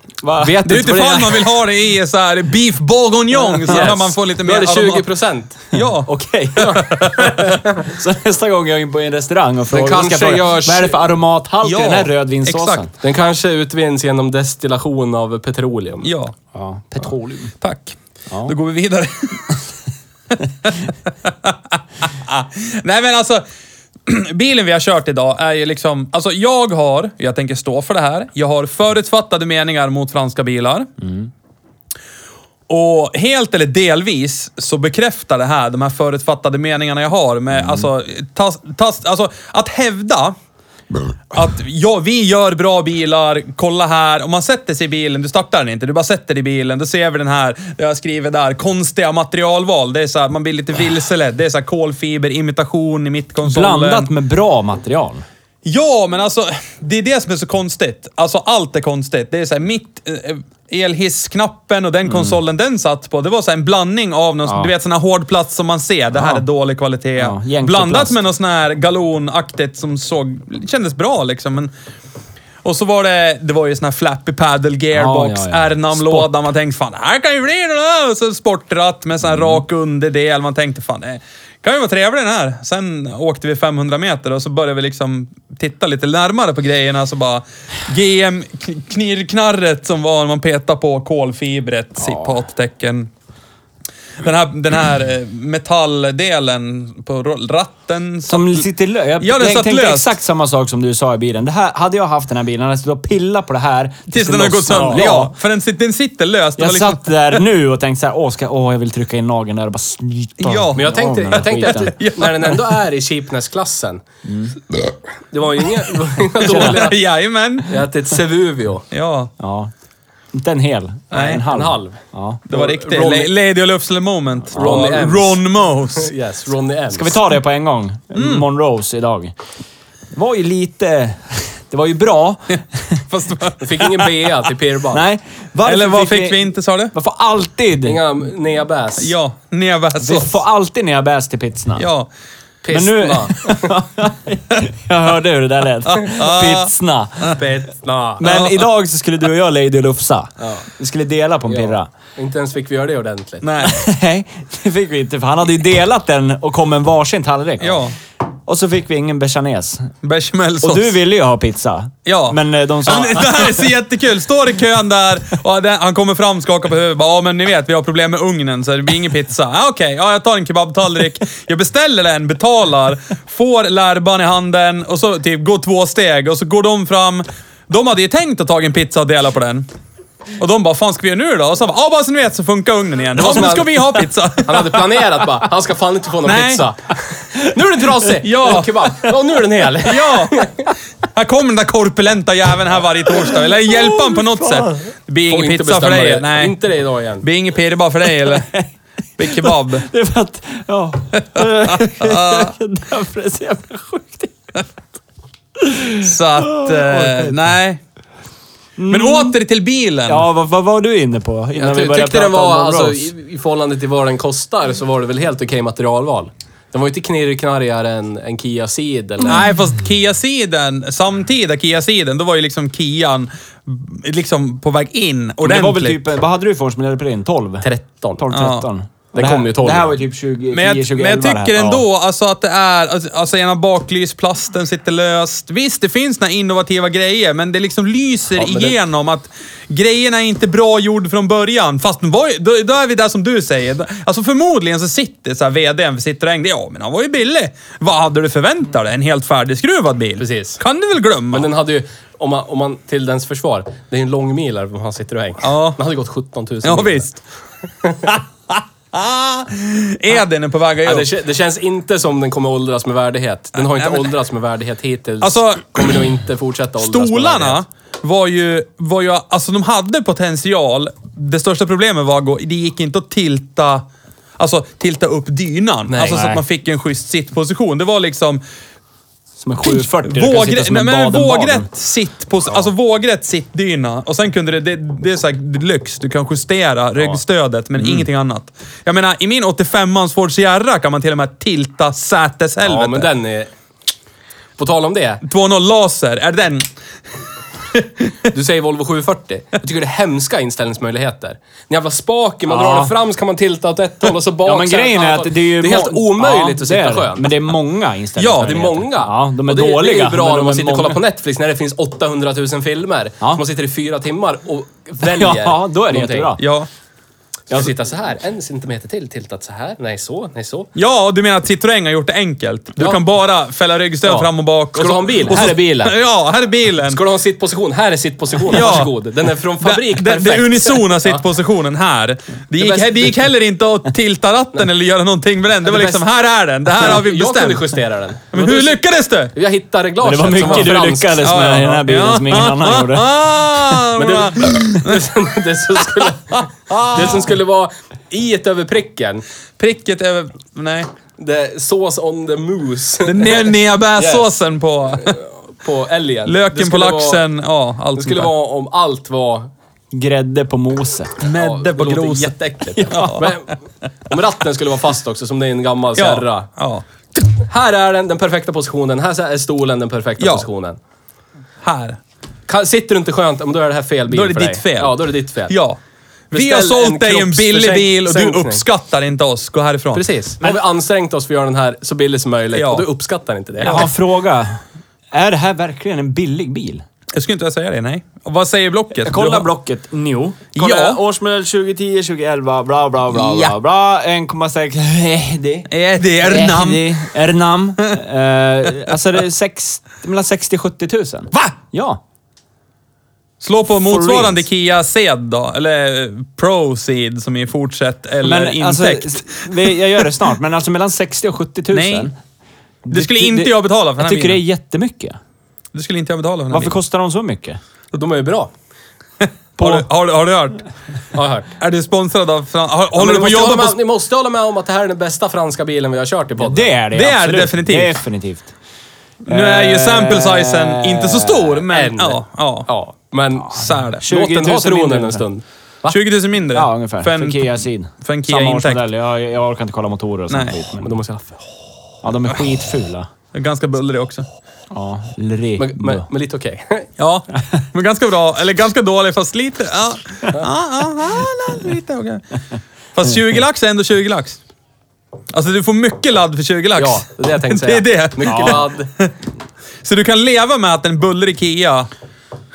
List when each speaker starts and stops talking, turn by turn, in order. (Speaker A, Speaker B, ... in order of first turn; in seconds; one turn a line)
Speaker A: 0.2-0.6
Speaker B: 0.4-1.5
Speaker C: 0.6-5.1
Speaker B: 3.6-5.6
Speaker C: 5.7-7.4
Speaker A: 6.0-12.9
Speaker B: 7.4-7.7
Speaker B: 9.7-11.0
Speaker C: 11.6-12.8
Speaker B: 13.0-16.1
Speaker C: 16.0-16.3
Speaker A: 16.5-17.5
Speaker C: 17.6-18.0
Speaker A: 18.3-18.6
Speaker C: 18.5-19.6
Speaker C: 20.6-23.4
Speaker C: 24.1-30.9
Speaker A: 31.0-31.3
Speaker C: 32.7-40.4
Speaker A: 37.5-37.9
Speaker C: 41.3-54.1
Speaker A: 53.5-55.2
Speaker C: 55.6-71.7
Speaker A: 62.1-62.4
Speaker A: 64.5-64.7
Speaker A: 66.2-66.5
Speaker A: 67.2-68.2
Speaker C: 72.6-93.1
Speaker A: 74.9-76.3
Speaker A: 92.0-92.4
Speaker C: 94.2-98.7
Speaker A: 98.3-105.3
Speaker C: 99.2-100.2
Speaker C: 104.1-107.4
Speaker A: 106.6-112.0
Speaker C: 110.4-112.8
Speaker B: 110.8-114.0
Speaker A: 114.2-114.6
Speaker B: 115.3-117.0
Speaker C: 116.3-117.8
Speaker B: 117.7-118.9
Speaker C: 118.9-119.3
Speaker A: 119.4-119.7
Speaker A: 120.3-122.4
Speaker C: 121.1-121.4
Speaker B: 121.2-123.3
Speaker C: 122.5-126.1
Speaker B: 124.5-127.2
Speaker A: 126.9-129.3
Speaker C: 128.2-128.4
Speaker A: 130.1-133.0
Speaker C: 133.1-134.2
Speaker B: 133.6-135.0
Speaker A: 134.9-138.0
Speaker C: 135.7-136.9
Speaker B: 137.8-139.2
Speaker C: 139.0-140.3
Speaker A: 140.0-141.9
Speaker C: 141.8-142.1
Speaker B: 142.6-143.8
Speaker A: 142.7-147.4
Speaker C: 145.9-146.7
Speaker B: 147.3-148.2
Speaker A: 148.2-151.9
Speaker C: 148.2-148.7
Speaker B: 151.5-153.5
Speaker C: 153.4-153.8
Speaker A: 153.6-157.8
Speaker C: 157.6-157.9
Speaker A: 158.5-159.9
Speaker C: 160.0-161.0
Speaker A: 160.6-163.7
Speaker C: 162.1-179.7
Speaker C: 180.4-185.0
Speaker B: 183.2-190.7
Speaker C: 186.2-186.7
Speaker C: 188.2-188.8
Speaker C: 189.8-190.5
Speaker C: 191.1-196.6
Speaker A: 193.8-194.8
Speaker B: 195.3-197.3
Speaker C: 197.2-198.5
Speaker A: 198.2-198.7
Speaker C: 199.2-199.9
Speaker A: 199.2-204.3
Speaker C: 201.4-202.5
Speaker A: 205.6-207.3
Speaker C: 206.0-207.8
Speaker A: 208.8-209.4
Speaker C: 208.9-210.3
Speaker A: 210.1-213.1
Speaker B: 211.6-219.4
Speaker C: 219.2-226.0
Speaker A: 225.4-231.8
Speaker B: 227.6-228.2
Speaker C: 228.3-228.7
Speaker B: 229.1-229.9
Speaker C: 230.5-251.5
Speaker B: 238.3-238.8
Speaker B: 250.2-250.6
Speaker B: 251.3-257.1
Speaker C: 255.4-255.8
Speaker C: 256.6-257.2
Speaker C: 258.0-261.1
Speaker B: 260.8-267.6
Speaker C: 263.6-264.1
Speaker C: 265.2-266.0
Speaker C: 266.8-273.9
Speaker C: 274.4-278.4
Speaker B: 275.9-276.4
Speaker A: 279.4-281.7
Speaker C: 279.6-293.1
Speaker B: 292.6-293.5
Speaker B: 294.6-295.2
Speaker C: 295.2-296.7
Speaker C: 297.7-298.1
Speaker B: 298.3-307.5
Speaker A: 302.5-302.9
Speaker A: 304.4-311.0
Speaker C: 308.2-308.6
Speaker B: 308.4-316.4
Speaker A: 315.0-316.4
Speaker C: 316.4-316.7
Speaker B: 317.5-320.7
Speaker C: 320.8-327.0
Speaker B: 322.8-323.0
Speaker B: 324.0-326.0
Speaker B: 326.9-331.2
Speaker C: 328.5-328.9
Speaker C: 329.6-337.8
Speaker B: 332.6-333.2
Speaker B: 335.6-336.0
Speaker B: 336.7-338.8
Speaker C: 338.3-339.3
Speaker B: 339.3-341.4
Speaker A: 340.0-343.1
Speaker C: 340.4-345.1
Speaker B: 344.0-349.2
Speaker C: 345.8-347.3
Speaker C: 349.6-350.9
Speaker B: 351.2-354.3
Speaker C: 353.1-355.2
Speaker B: 354.9-357.2
Speaker C: 356.3-358.3
Speaker B: 357.9-359.5
Speaker A: 359.9-361.2
Speaker C: 361.2-363.4
Speaker B: 361.3-366.5
Speaker C: 366.0-366.9
Speaker B: 367.4-370.8
Speaker C: 370.2-370.5
Speaker C: 371.6-372.0
Speaker B: 372.5-375.6
Speaker C: 374.1-375.8
Speaker C: 376.3-380.1
Speaker B: 376.3-378.6
Speaker B: 379.9-383.9
Speaker C: 382.5-382.9
Speaker C: 383.6-383.9
Speaker A: 383.6-384.6
Speaker A: 385.1-386.8
Speaker C: 387.1-389.5
Speaker A: 389.0-395.7
Speaker C: 390.6-391.0
Speaker C: 393.1-393.6
Speaker C: 395.7-397.1
Speaker A: 396.2-402.0
Speaker C: 403.4-409.8
Speaker A: 403.8-404.4
Speaker A: 408.2-412.1
Speaker C: 411.7-412.1
Speaker A: 412.9-415.2
Speaker C: 412.9-414.4
Speaker C: 415.7-416.8
Speaker A: 416.5-417.6
Speaker B: 417.9-418.5
Speaker C: 419.2-420.6
Speaker A: 419.6-419.9
Speaker B: 421.1-421.5
Speaker C: 421.6-423.8
Speaker B: 422.9-426.7
Speaker A: 426.4-428.5
Speaker C: 426.9-428.0
Speaker C: 429.3-432.7
Speaker A: 429.3-431.6
Speaker B: 431.7-436.0
Speaker C: 433.5-434.1
Speaker A: 434.0-435.2
Speaker C: 435.9-438.8
Speaker A: 436.5-440.9
Speaker C: 440.3-440.6
Speaker B: 440.8-441.4
Speaker A: 442.0-443.1
Speaker C: 443.3-444.3
Speaker A: 444.7-446.1
Speaker B: 445.6-446.9
Speaker C: 447.0-452.2
Speaker C: 452.9-454.4
Speaker C: 455.3-459.1
Speaker B: 456.8-458.9
Speaker A: 458.2-458.6
Speaker C: 459.8-461.9